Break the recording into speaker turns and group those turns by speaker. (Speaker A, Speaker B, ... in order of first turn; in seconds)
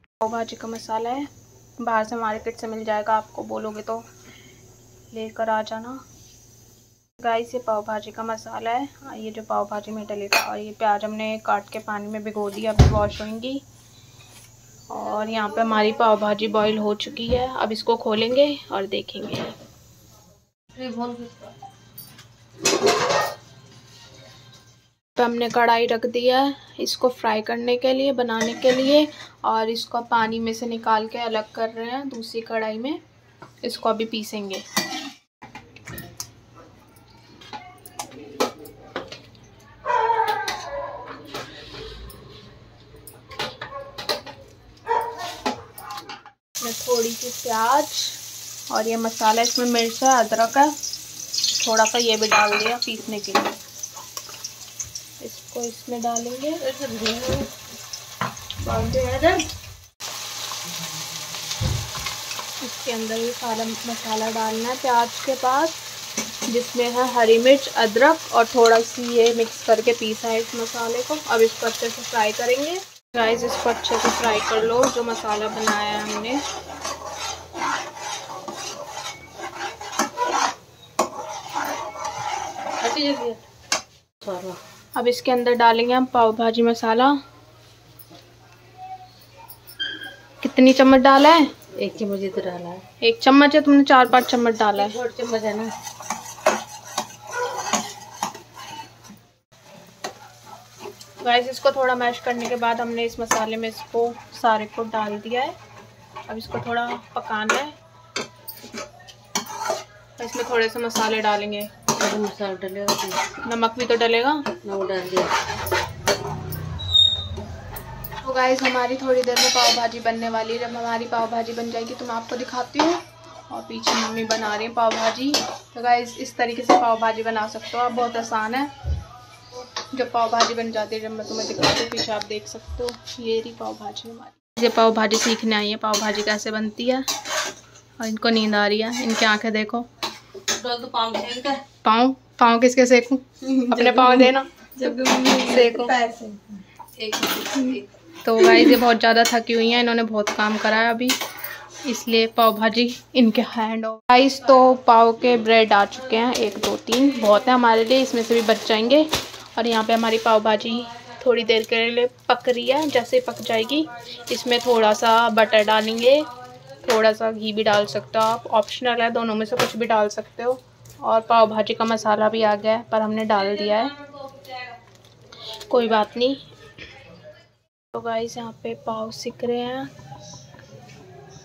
Speaker A: 0.2-1.3, 1.8-4.0, 5.1-6.0, 7.2-13.6, 14.9-19.5, 25.1-33.0, 33.6-34.6, 46.6-48.2, 48.7-50.7, 51.6-53.6, 55.2-56.6, 62.6-65.8, 66.5-76.4, 85.0-87.1, 90.4-91.5, 93.0-95.0, 101.2-105.5, 106.3-107.7, 110.2-111.7, 113.4-114.5, 118.2-128.7, 129.9-137.0, 138.0-139.8, 141.8-144.6, 145.3-145.9, 148.2-151.2, 151.8-174.0, 175.7-176.4, 177.9-179.9
Speaker B: 20.7-21.5, 56.6-57.5, 58.6-59.4, 82.8-83.4, 84.2-84.6, 91.8-92.8, 94.7-95.7, 111.9-113.2, 114.6-115.4, 140.6-141.6, 143.5-147.9, 173.7-174.8